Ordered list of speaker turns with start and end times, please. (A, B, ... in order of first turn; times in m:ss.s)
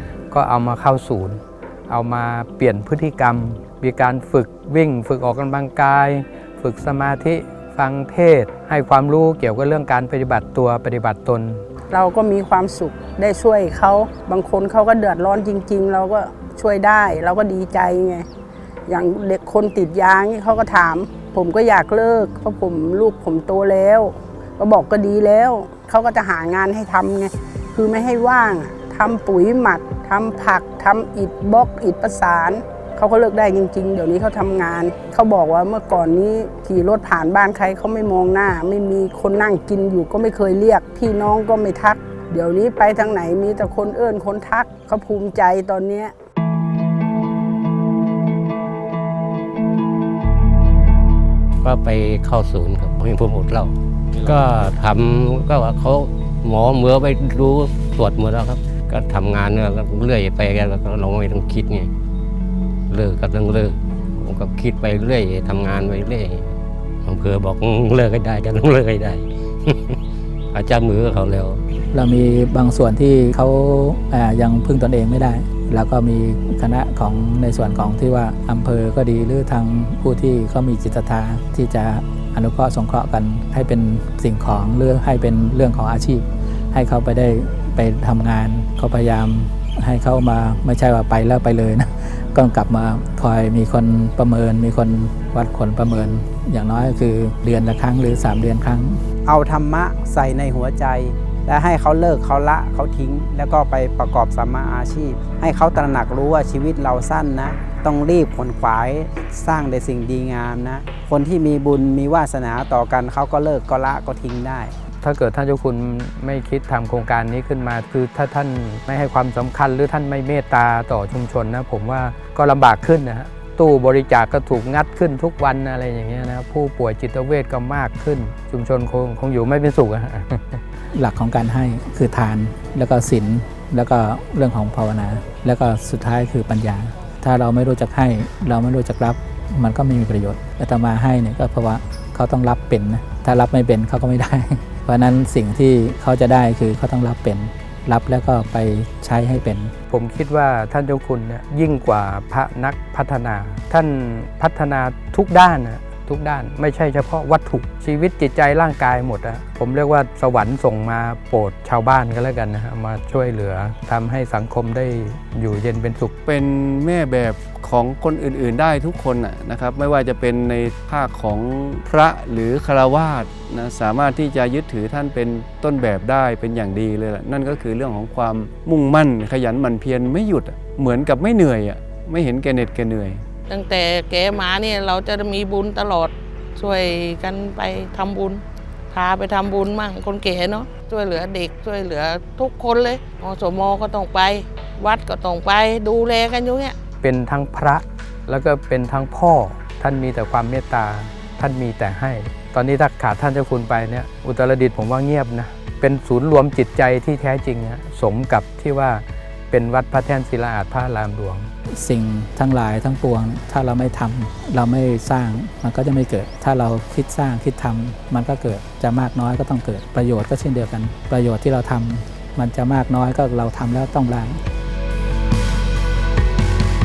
0:00.3-0:11.6 A
0:11.9-0:18.3 B
0:18.9-0:46.1 B
0:51.6-1:01.9 C
1:02.9-1:10.0 C
1:10.5-1:11.6 C
1:11.9-1:39.0 D
1:39.2-1:54.7 E
1:55.0-2:10.6 A
2:10.9-2:29.7 D
2:29.9-2:46.1 A
2:46.3-3:03.2 F
3:03.5-3:16.8 G
3:17.0-3:31.5 A
3:31.7-3:44.4 D